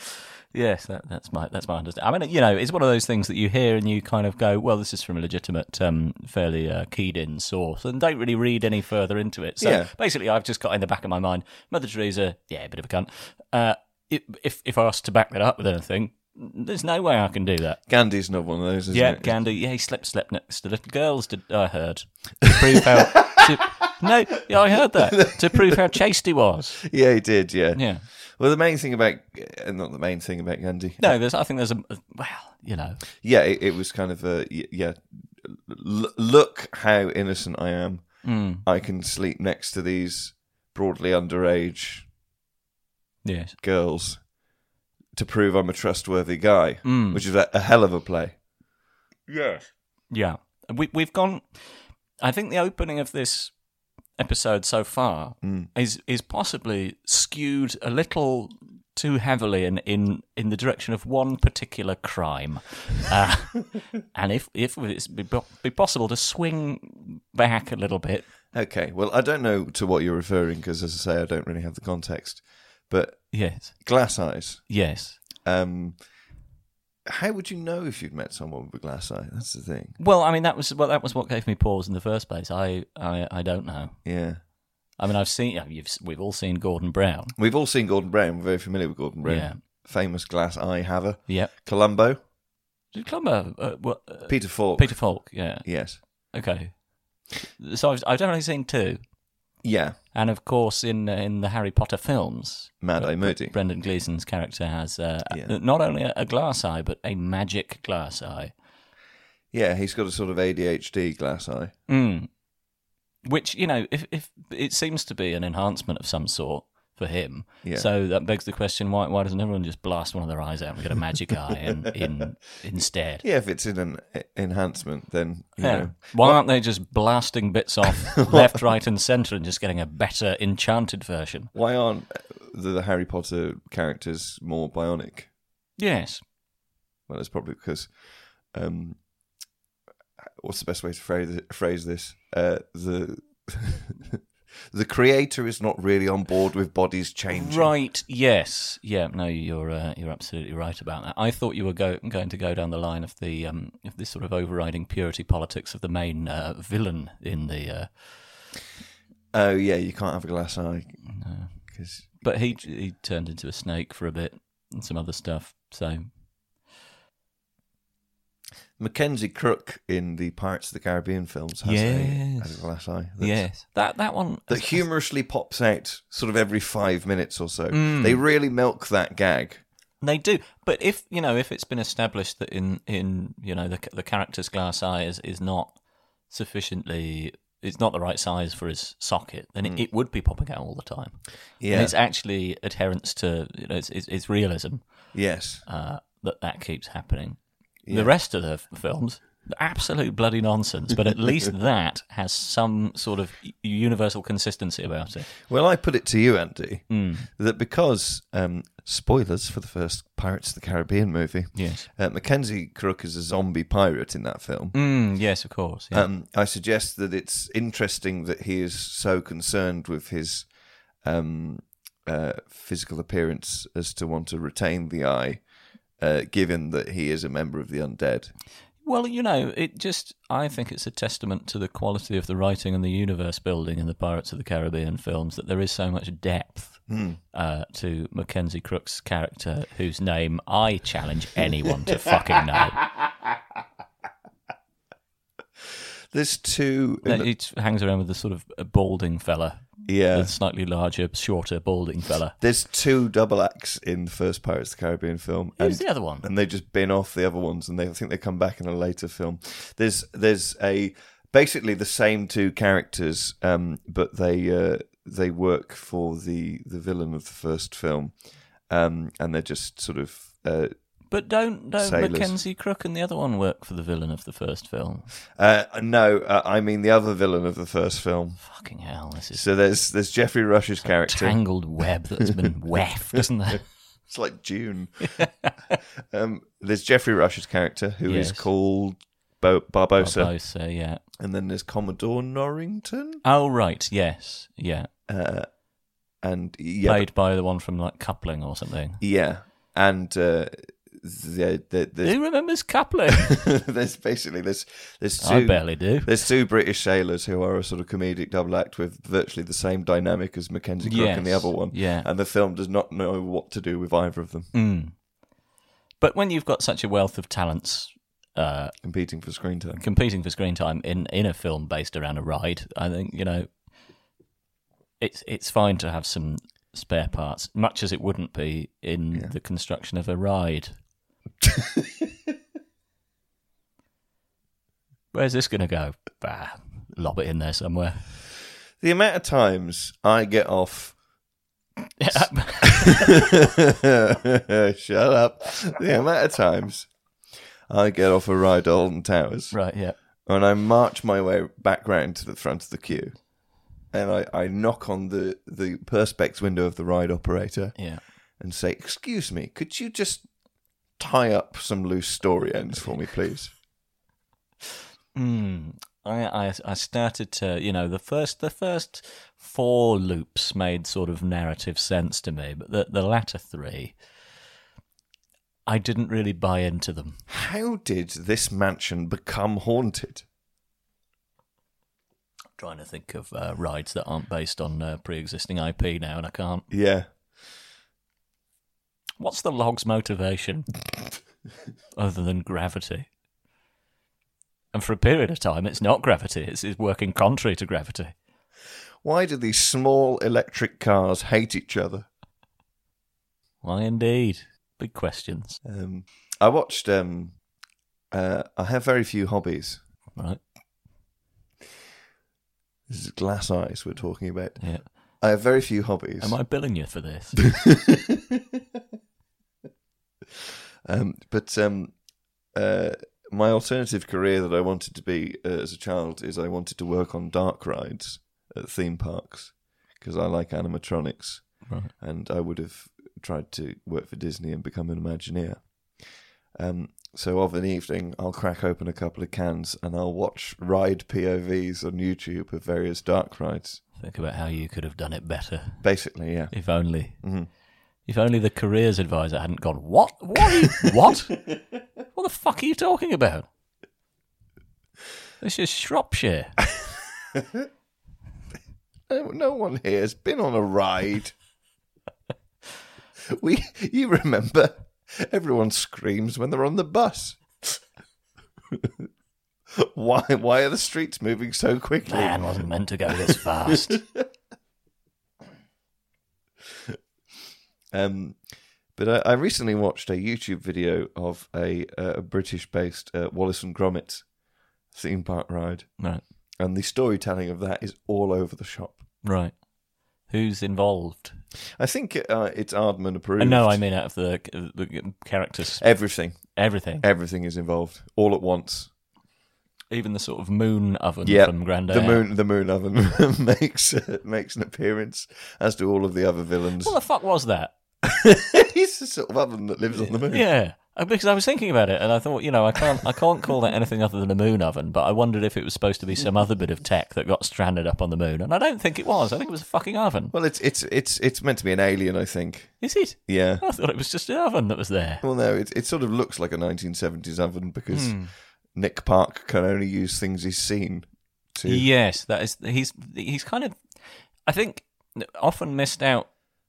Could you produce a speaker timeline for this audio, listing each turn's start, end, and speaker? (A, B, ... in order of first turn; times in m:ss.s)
0:00.5-0:17.8 A
0:09.6-0:09.9 B
0:17.9-0:19.3 B
0:18.9-0:26.9 A
0:26.9-0:31.1 B
0:27.7-0:28.0 A
0:31.0-0:33.0 A
0:33.2-0:42.1 B
0:38.2-0:38.6 A
0:43.2-0:43.6 A
0:43.6-0:44.3 B
0:45.2-0:48.4 B
0:46.8-0:47.2 A
0:50.1-0:53.6 A
0:54.2-1:08.3 A
0:55.4-0:55.7 B
1:08.5-1:16.1 B
1:13.3-1:15.2 A
1:17.0-1:20.0 B
1:20.0-1:24.3 A
1:24.0-1:24.4 B
1:25.0-1:27.3 A
1:27.4-1:32.2 B
1:29.2-1:29.6 A
1:32.9-1:39.0 A
1:34.3-1:36.0 B
1:39.6-1:40.0 B
1:40.1-1:48.5 A
1:42.8-1:43.5 B
1:49.5-1:51.7 B
1:51.9-1:52.3 A
1:53.2-2:03.2 A
2:03.2-2:06.4 B
2:05.6-2:11.5 A
2:07.9-2:08.6 B
2:11.5-2:15.3 B
2:15.8-2:16.2 A
2:17.1-2:19.0 B
2:20.4-2:24.2 B
2:24.7-2:27.7 B
2:27.3-2:38.5 A
2:39.3-2:41.0 B
2:41.1-2:46.7 A
2:41.7-2:42.5 B
2:48.8-2:53.8 B
2:51.6-2:54.9 A
2:54.5-2:59.6 B
2:57.7-2:58.2 A
3:00.0-3:05.8 A
3:06.3-3:25.3 A
3:11.6-3:11.9 B
3:15.1-3:15.6 B
3:17.8-3:18.1 B
3:25.4-3:34.8 B
3:26.9-3:27.3 A
3:31.5-3:31.9 A
3:34.7-3:36.1 A
3:35.9-3:45.4 B
3:46.0-3:48.3 B
3:48.8-4:02.8 A
3:56.9-3:57.2 B
4:06.1-4:07.3 B
4:07.0-4:12.4 A
4:09.8-4:10.3 B
4:12.4-4:30.7 B
4:15.6-4:16.2 A
4:31.1-4:35.1 A
4:31.8-4:32.4 B
4:35.3-4:38.4 B
4:38.4-4:39.4 A
4:39.3-4:41.6 B
4:40.8-4:43.6 A
4:44.1-4:45.2 B
4:45.1-4:45.5 A
4:46.1-4:50.4 B
4:48.0-4:48.5 A
4:50.0-4:51.0 A
4:51.2-4:53.2 B
4:53.2-4:54.9 A
4:55.1-4:55.6 B
4:56.1-4:57.1 B
4:56.8-4:59.0 A
4:59.0-5:02.4 B
5:02.0-5:03.4 A
5:03.2-5:14.5 B
5:05.2-5:06.1 A
5:10.8-5:12.1 A
5:14.5-5:15.0 A
5:16.0-5:18.7 A
5:18.8-5:19.8 B
5:19.8-5:23.5 A
5:25.0-5:30.8 A
5:31.4-5:32.0 B
5:35.1-5:38.2 A
5:38.8-5:41.0 B
5:42.0-5:43.1 A
5:42.1-5:46.9 B
5:47.7-6:00.3 B
5:49.5-5:50.0 A
5:57.8-5:58.0 A
6:01.0-6:03.5 B
6:05.1-6:14.0 A
6:15.6-6:17.2 A
6:17.3-6:20.2 B
6:22.6-6:26.7 A
6:26.7-6:27.1 B
6:29.2-6:30.7 A
6:32.0-6:33.1 A
6:34.7-6:38.2 A
6:39.0-6:42.1 B
6:43.6-6:45.6 A
6:45.6-6:47.4 B
6:48.1-6:50.1 B
6:52.9-6:56.4 B
6:54.6-6:54.9 A
6:56.2-6:57.6 A
6:57.6-6:58.2 B
7:00.8-7:23.8 B
7:11.6-7:11.9 A
7:24.0-7:27.5 A
7:25.8-7:27.5 B
7:28.0-7:31.6 A
7:32.1-7:33.4 A
7:35.4-7:36.5 A
7:37.3-7:37.6 B
7:39.1-7:41.3 B
7:43.3-7:47.8 B
7:48.7-7:49.1 B
7:49.8-7:54.2 B
7:52.0-7:54.0 A
7:57.9-7:58.4 B
7:58.9-8:04.3 B
8:04.9-8:09.0 B
8:09.2-8:09.6 A
8:10.2-8:11.4 A
8:11.8-8:13.8 B
8:13.4-8:17.0 A
8:15.8-8:18.9 B
8:19.9-8:22.2 A
8:21.2-8:26.9 B
8:26.8-8:27.7 A
8:28.0-8:30.5 B
8:29.9-8:40.3 A
8:40.3-8:43.6 B
8:42.8-8:45.2 A
8:45.2-8:51.9 B
8:47.9-8:48.3 A
8:51.6-8:56.3 A